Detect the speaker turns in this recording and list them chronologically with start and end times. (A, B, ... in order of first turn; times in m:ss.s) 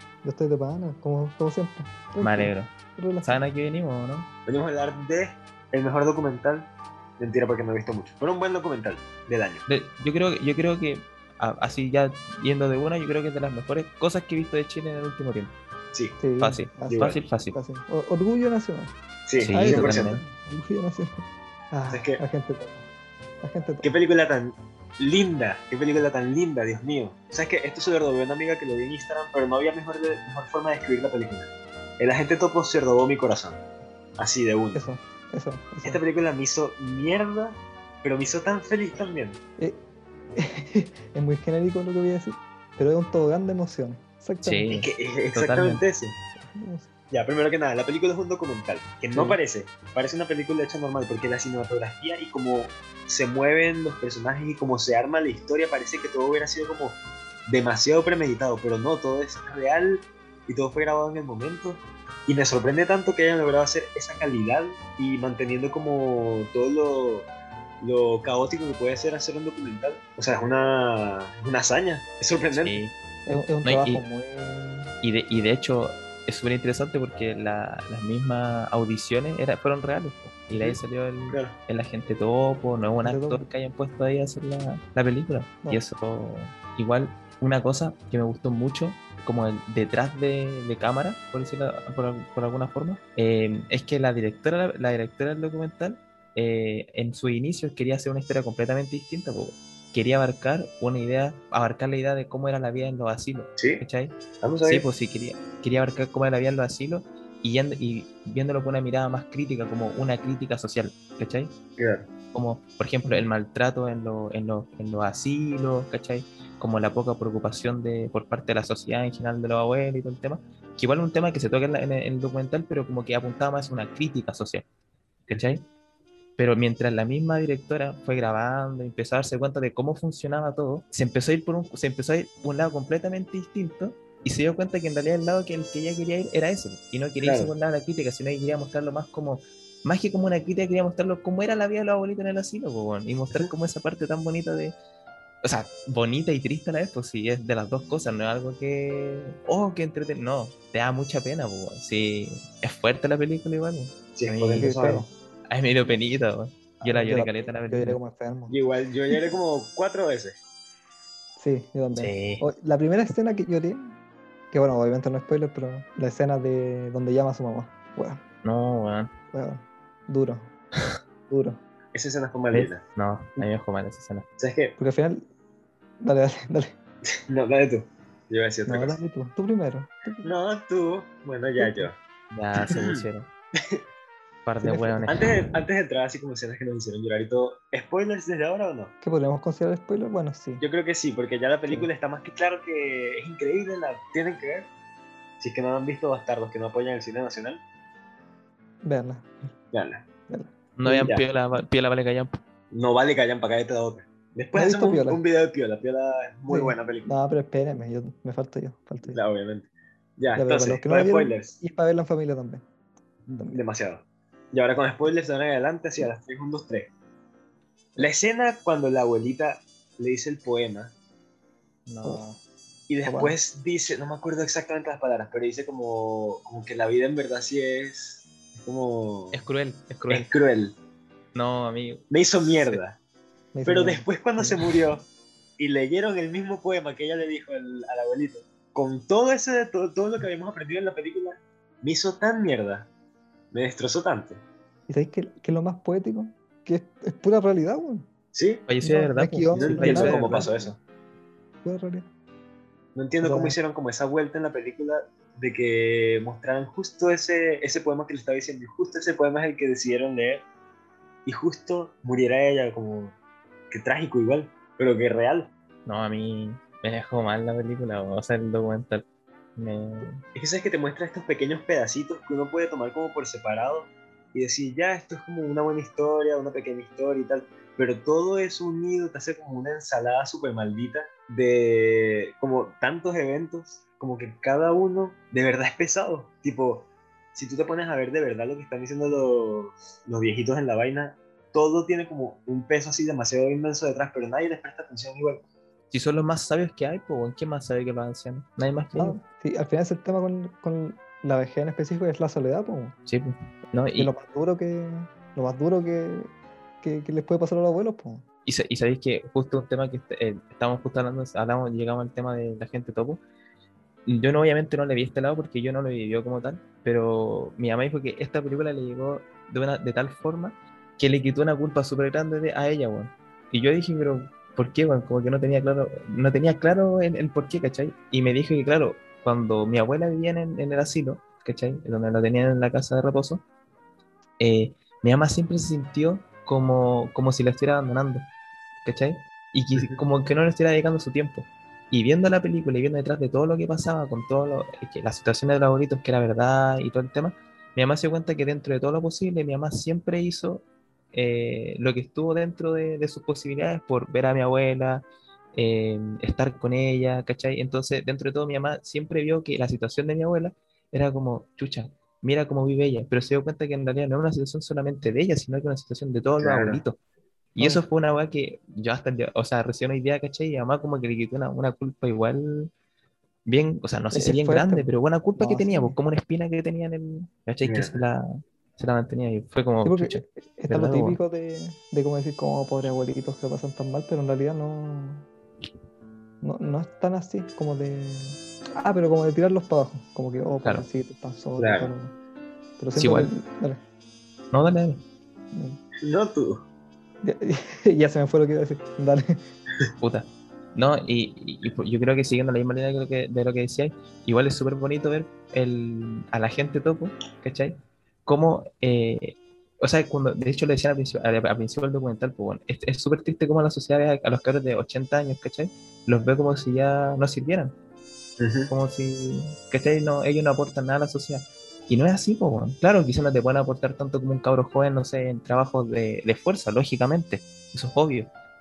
0:00.2-0:03.4 A
0:02.2-0:04.3 B
0:04.5-0:09.6 C
0:09.7-0:15.5 B
0:15.9-0:16.2 C
0:16.2-0:18.9 A
0:16.4-0:17.6 B
0:16.9-0:17.2 C
0:19.3-0:20.2 C
0:19.4-0:20.2 B
0:19.5-0:22.9 A
0:21.9-0:22.2 C
0:23.4-0:23.9 A
0:23.8-0:33.6 C
0:34.2-0:34.8 C
0:34.7-0:36.0 A
0:35.8-0:39.4 C
0:40.4-0:44.7 A
0:44.4-0:45.9 B
0:44.7-0:46.2 C
0:46.4-0:46.9 A
0:47.1-1:07.3 C
0:49.1-0:49.4 A
1:07.8-1:12.8 C
1:12.5-1:13.0 B
1:13.3-1:14.9 A
1:13.5-1:14.0 B
1:15.0-1:51.5 B
1:20.5-1:20.8 C
1:21.3-1:21.6 C
1:23.0-1:23.5 A
1:43.6-1:43.8 C
1:44.4-1:44.9 C
1:51.8-1:52.1 C
1:52.3-2:04.7 B
1:53.0-1:53.3 A
2:05.3-2:05.7 B
2:06.4-2:24.8 B
2:17.2-2:17.5 C
2:25.4-2:38.0 B
2:34.2-2:35.1 C
2:34.6-2:35.1 A
2:36.8-2:39.4 A
2:38.5-2:40.4 C
2:41.4-2:44.0 A
2:42.0-2:42.5 B
2:44.5-2:48.2 A
2:48.4-2:49.1 B
2:49.3-2:50.5 A
2:51.3-2:51.6 A
2:51.9-2:52.8 C
2:52.5-2:54.3 B
2:54.4-2:54.8 C
2:54.8-2:55.3 A
2:56.0-2:56.8 A
2:57.3-2:59.0 C
2:58.9-3:00.3 A
3:00.2-3:02.0 C
3:01.6-3:01.9 A
3:02.3-3:03.3 B
3:02.6-3:03.0 C
3:04.5-3:05.2 B
3:04.6-3:05.1 A
3:05.1-3:08.9 C
3:09.0-3:10.6 A
3:10.6-3:14.7 C
3:15.4-3:17.6 C
3:18.8-3:19.6 A
3:19.7-3:20.1 C
3:20.3-3:21.6 A
3:20.8-3:22.4 B
3:22.7-3:27.2 C
3:24.6-3:25.2 A
3:26.5-3:29.2 A
3:29.0-3:31.6 C
3:30.4-3:32.6 A
3:33.3-3:36.9 C
3:38.0-3:40.9 C
3:41.9-3:42.2 B
3:42.0-3:42.4 A
3:42.9-3:49.4 C
3:43.0-3:43.4 A
3:49.3-3:50.3 B
3:50.1-3:50.8 C
3:51.3-3:52.8 B
3:52.1-3:53.0 C
3:53.5-3:54.7 A
3:53.6-3:55.1 C
3:55.6-4:02.9 C
4:03.5-4:04.4 C
4:04.9-4:08.1 A
4:08.3-4:08.7 C
4:08.7-4:10.4 B
4:08.8-4:10.8 A
4:09.6-4:10.8 C
4:11.6-4:12.1 A
4:13.0-4:20.5 C
4:13.2-4:13.6 A
4:21.2-4:23.2 C
4:23.7-4:25.5 C
4:25.9-4:30.2 B
4:30.4-4:55.4 C
4:55.9-4:59.2 B
4:58.9-5:03.0 A
5:03.1-5:04.1 B
5:04.0-5:08.2 A
5:08.5-5:13.2 B
5:14.1-5:33.4 B
5:34.4-5:38.3 B
5:38.8-6:07.0 B
6:06.4-6:06.8 C
6:07.6-6:12.7 B
6:07.6-6:07.8 A
6:13.5-6:21.2 B
6:14.1-6:16.0 A
6:17.6-6:18.0 C
6:19.8-6:25.3 A
6:26.4-6:32.1 A
6:31.6-6:31.9 C
6:32.8-6:33.8 A
6:33.0-6:33.3 B
6:34.5-6:35.0 B
6:35.5-6:35.8 A
6:36.0-6:36.6 C
6:37.2-6:39.5 A
6:40.0-6:47.8 B
6:48.3-6:57.7 B
6:58.4-6:58.7 C
6:58.7-7:08.3 B